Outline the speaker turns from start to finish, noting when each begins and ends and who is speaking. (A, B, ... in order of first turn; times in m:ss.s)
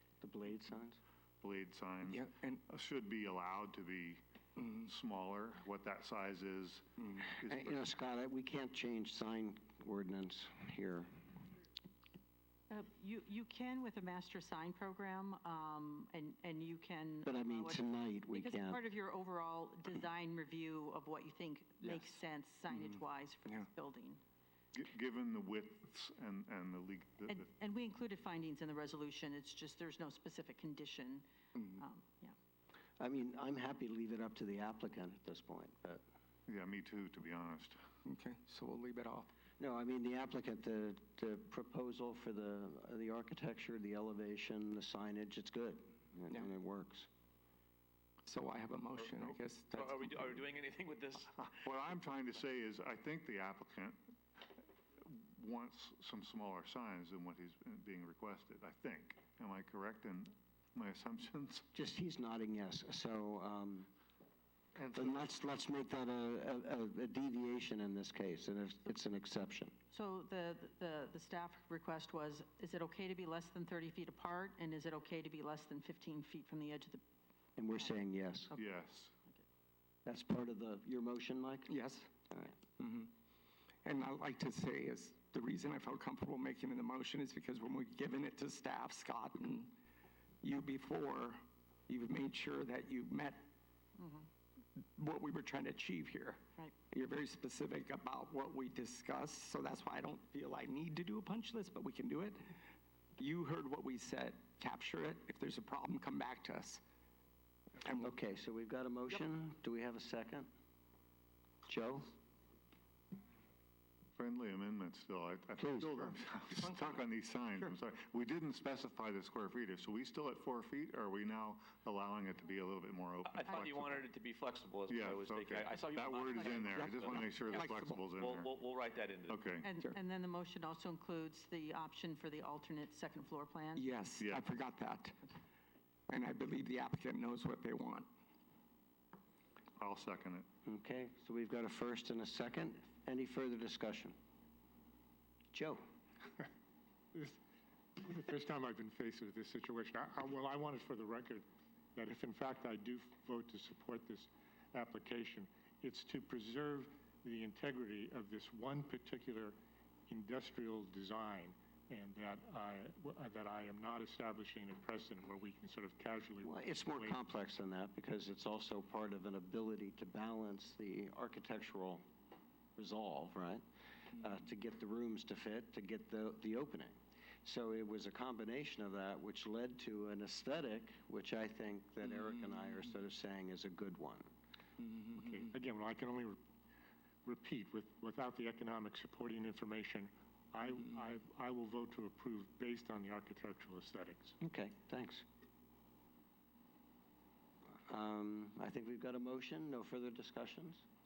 0:00.2-0:01.0 A
0:01.4-0:07.8 B
0:02.0-0:02.6 C
0:07.5-0:11.1 A
0:12.7-0:24.2 D
0:17.2-0:18.8 A
0:21.8-0:22.2 C
0:22.7-0:23.7 C
0:24.7-0:27.4 B
0:27.3-0:32.3 D
0:31.6-0:31.8 C
0:33.0-0:36.0 A
0:36.5-0:37.8 B
0:38.0-0:39.3 C
0:39.6-0:47.1 A
0:48.2-0:50.4 C
0:49.8-0:51.3 E
0:51.4-0:54.0 B
0:55.0-1:01.7 B
1:01.7-1:03.9 A
1:04.7-1:05.4 B
1:04.9-1:09.8 A
1:09.9-1:17.0 D
1:17.6-1:18.5 A
1:18.5-1:19.1 B
1:20.0-1:21.7 A
1:21.7-1:22.1 C
1:22.8-1:23.1 C
1:23.8-1:29.7 C
1:30.4-1:33.4 C
1:34.0-1:34.3 D
1:35.0-1:42.5 C
1:43.2-1:46.8 C
1:47.8-1:48.1 C
1:48.0-1:50.5 A
1:51.6-1:52.1 A
1:54.2-2:04.0 B
1:55.6-1:56.0 A
1:56.7-1:57.0 C
2:03.2-2:07.5 E
2:04.9-2:08.5 B
2:06.7-2:08.1 C
2:08.2-2:09.4 E
2:09.3-2:09.6 B
2:09.6-2:13.9 D
2:13.8-2:15.3 C
2:16.1-2:18.1 C
2:19.8-2:20.4 B
2:20.6-2:24.2 A
2:25.5-2:25.8 A
2:28.0-2:39.6 F
2:40.1-2:47.2 F
2:46.4-2:52.0 A
2:52.8-3:04.3 A
3:02.0-3:02.8 C
3:04.8-3:05.4 C
3:05.1-3:06.4 F
3:07.2-3:14.3 F
3:14.4-3:15.2 A
3:17.9-3:20.8 A